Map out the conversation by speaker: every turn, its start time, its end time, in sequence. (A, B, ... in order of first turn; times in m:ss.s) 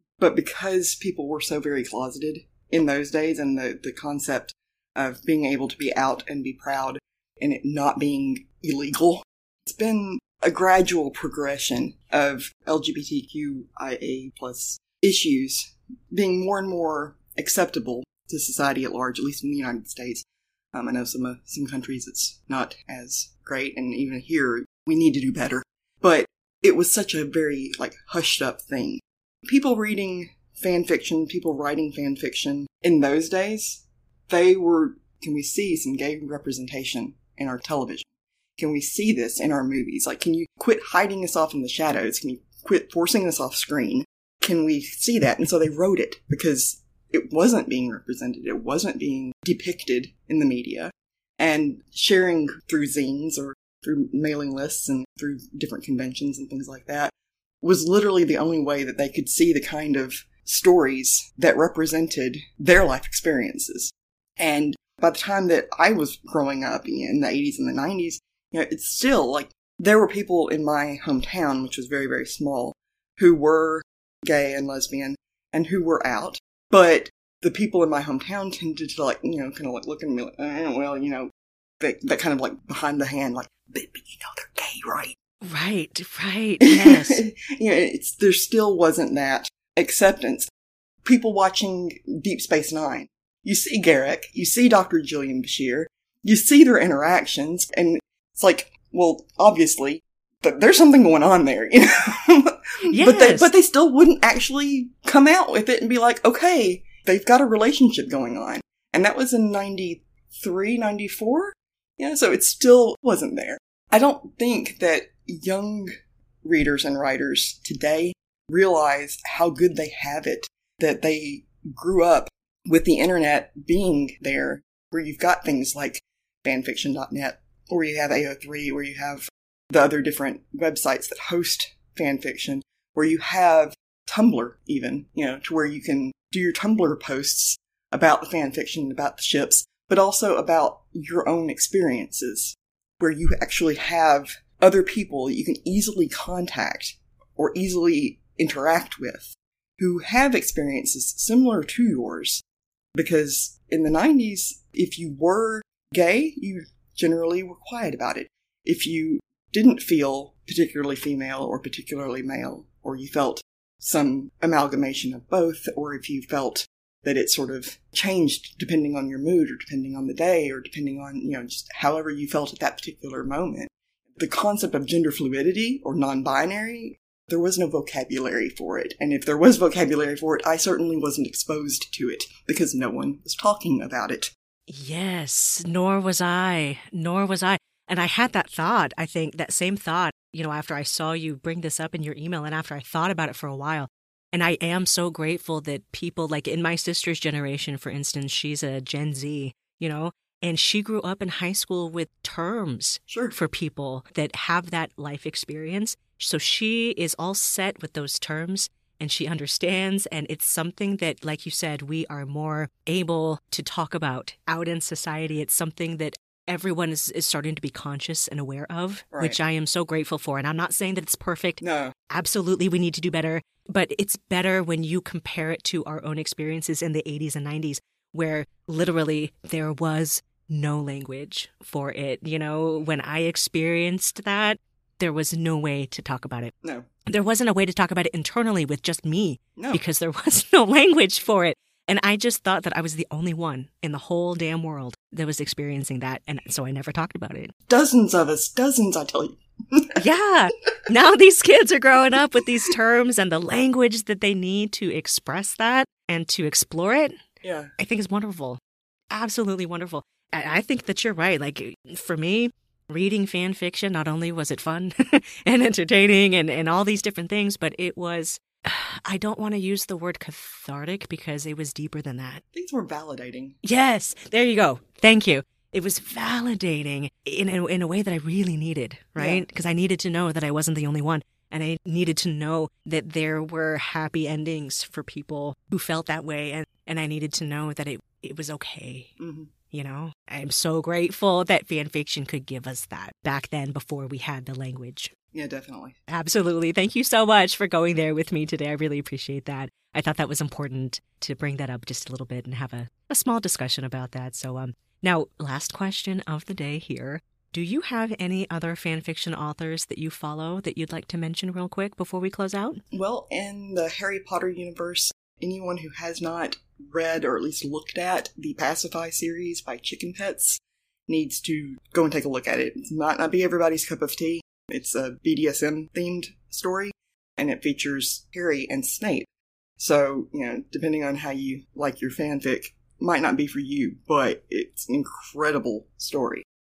0:00.2-1:21.3 A
1:21.8-1:25.2 A
1:25.4-1:27.2 B
1:26.6-1:30.5 A
1:31.0-1:55.9 A
1:42.9-1:43.5 B
1:56.4-2:32.4 A
2:32.9-3:04.3 A
3:04.7-3:56.5 B
3:23.1-3:23.4 A
3:41.6-3:41.9 A
3:57.1-4:07.5 B
3:59.6-3:59.8 A
4:07.7-4:10.0 A
4:10.0-4:17.2 B
4:17.4-4:17.7 A
4:17.8-4:32.4 B
4:32.5-4:33.6 A
4:33.6-4:49.2 B
4:39.2-4:39.4 A
4:49.2-4:49.5 A
4:49.7-4:55.1 B
4:55.3-4:56.0 A
4:56.1-5:12.8 B
5:12.9-5:29.3 A
5:29.8-5:36.4 A